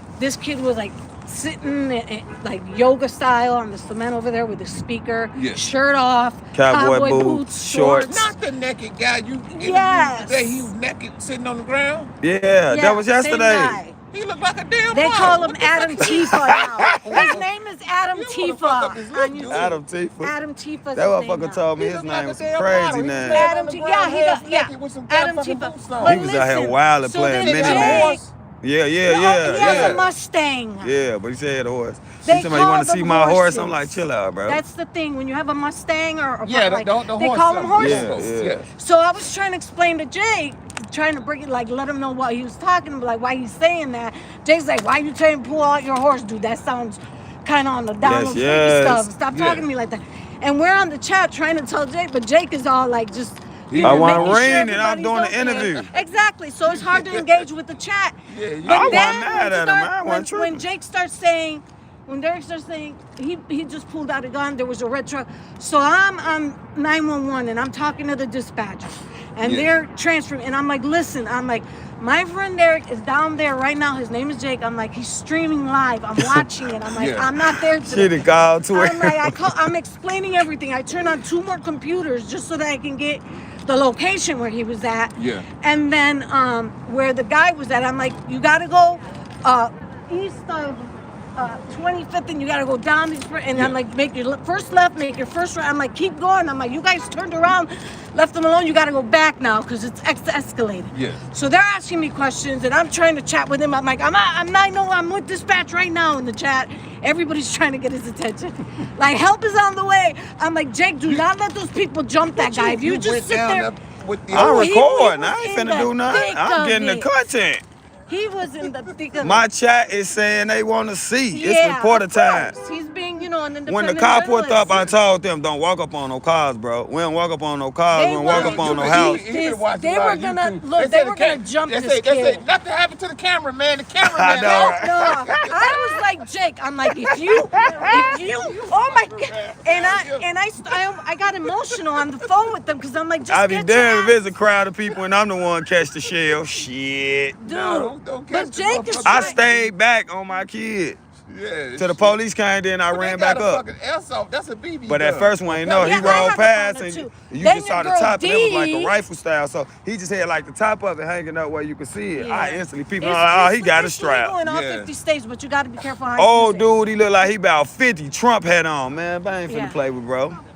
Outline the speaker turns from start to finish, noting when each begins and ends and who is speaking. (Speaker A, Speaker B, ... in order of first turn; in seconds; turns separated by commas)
Speaker A: 0.2-8.3, Speaker B: 5.3-5.7, Speaker C: 6.5-8.2, Speaker B: 8.1-12.1, Speaker A: 9.5-10.7, Speaker C: 12.2-13.8, Speaker A: 12.7-14.0, Speaker B: 14.1-17.4, Speaker A: 14.9-21.7, Speaker C: 16.0-17.3, Speaker B: 18.1-19.8, Speaker C: 19.5-20.3, Speaker C: 20.9-23.5, Speaker B: 21.8-26.2, Speaker A: 23.3-28.2, Speaker C: 26.0-30.0, Speaker B: 27.4-28.3, Speaker A: 29.1-30.9, Speaker B: 29.5-30.1, Speaker C: 30.8-34.6, Speaker A: 32.2-58.1, Speaker B: 36.5-38.7, Speaker C: 37.8-38.6, Speaker C: 48.0-49.1, Speaker B: 49.3-49.7, Speaker B: 53.7-54.8, Speaker C: 53.8-55.9, Speaker B: 55.4-56.0, Speaker B: 56.7-57.5, Speaker B: 58.3-59.1, Speaker C: 58.7-60.6, Speaker A: 58.7-113.7, Speaker B: 69.4-69.7, Speaker C: 76.2-76.5, Speaker B: 77.0-77.3, Speaker C: 77.8-79.6, Speaker B: 85.2-85.5, Speaker B: 100.9-101.2, Speaker B: 112.3-114.7, Speaker C: 114.3-117.6, Speaker A: 114.3-117.1, Speaker A: 118.1-119.5, Speaker C: 119.2-122.6, Speaker A: 121.3-124.9, Speaker C: 123.7-129.2, Speaker A: 127.9-132.4, Speaker B: 128.2-134.8, Speaker C: 134.0-136.0, Speaker A: 134.4-144.2, Speaker C: 137.1-138.0, Speaker B: 138.1-140.2, Speaker B: 141.4-142.1, Speaker C: 143.3-147.4, Speaker A: 147.4-149.4, Speaker B: 147.4-149.7, Speaker C: 149.0-151.0, Speaker B: 151.3-152.2, Speaker C: 151.8-153.6, Speaker B: 152.9-156.4, Speaker C: 154.9-164.3, Speaker A: 155.8-159.0, Speaker A: 162.2-166.7, Speaker B: 164.4-164.9, Speaker C: 166.2-170.4, Speaker A: 169.5-169.8